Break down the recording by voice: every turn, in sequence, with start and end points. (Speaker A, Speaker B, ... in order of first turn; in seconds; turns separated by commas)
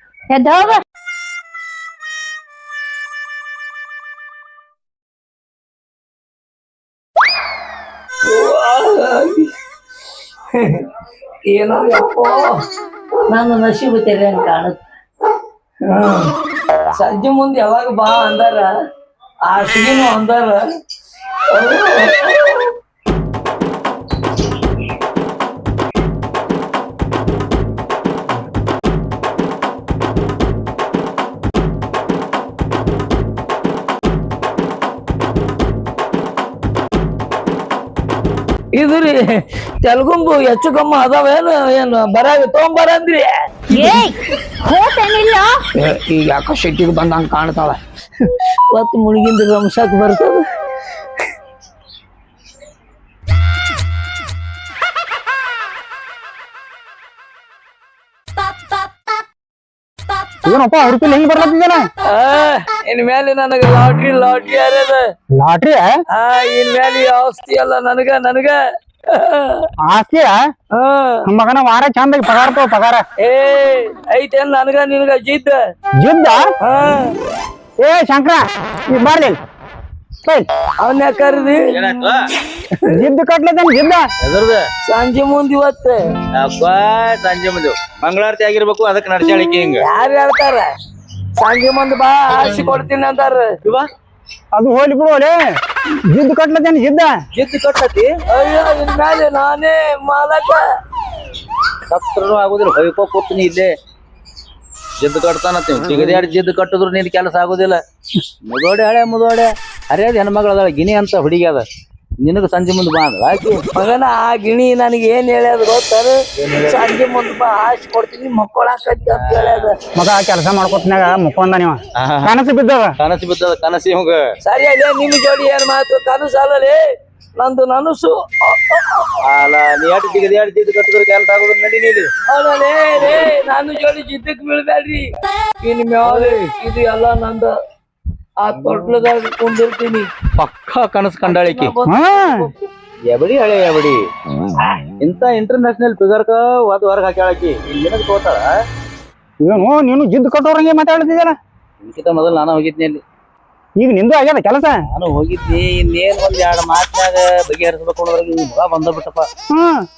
Speaker A: 0.3-0.8, Speaker B: 8.3-9.6, Speaker B: 10.5-10.9, Speaker B: 11.5-12.6, Speaker B: 13.3-14.8, Speaker B: 15.8-16.3, Speaker B: 16.9-18.7, Speaker B: 19.5-20.6, Speaker B: 21.5-22.8, Speaker B: 38.7-44.0, Speaker A: 43.7-45.5, Speaker B: 45.8-50.4, Speaker C: 60.5-61.8, Speaker B: 62.1-65.0, Speaker C: 65.4-66.0, Speaker B: 66.1-68.6, Speaker B: 69.1-69.7, Speaker C: 69.9-70.4, Speaker B: 70.7-71.3, Speaker C: 71.3-73.0, Speaker B: 73.2-75.6, Speaker C: 76.0-76.5, Speaker B: 76.6-77.1, Speaker C: 77.8-79.4, Speaker B: 80.8-81.7, Speaker D: 81.7-82.2, Speaker C: 82.8-84.1, Speaker D: 84.2-84.7, Speaker B: 84.8-86.0, Speaker D: 86.3-89.8, Speaker B: 89.8-90.7, Speaker B: 91.4-93.5, Speaker C: 94.5-95.3, Speaker C: 96.1-97.2, Speaker D: 97.3-98.1, Speaker B: 98.3-100.6, Speaker D: 101.9-103.7, Speaker D: 105.0-107.8, Speaker D: 108.4-111.6, Speaker D: 112.2-113.6, Speaker B: 113.8-119.8, Speaker D: 116.4-116.8, Speaker D: 119.1-119.7, Speaker C: 120.0-122.9, Speaker D: 122.0-122.3, Speaker D: 123.0-124.2, Speaker B: 124.4-126.8, Speaker B: 127.4-129.1, Speaker D: 129.2-132.1, Speaker B: 132.3-137.5, Speaker D: 136.1-136.4, Speaker B: 138.4-140.1, Speaker D: 140.4-141.7, Speaker B: 141.2-142.5, Speaker C: 141.9-142.5, Speaker D: 143.1-144.0, Speaker D: 145.0-148.4, Speaker C: 149.4-151.4, Speaker D: 151.8-153.0, Speaker C: 153.8-154.8, Speaker D: 154.9-159.3, Speaker C: 159.5-159.9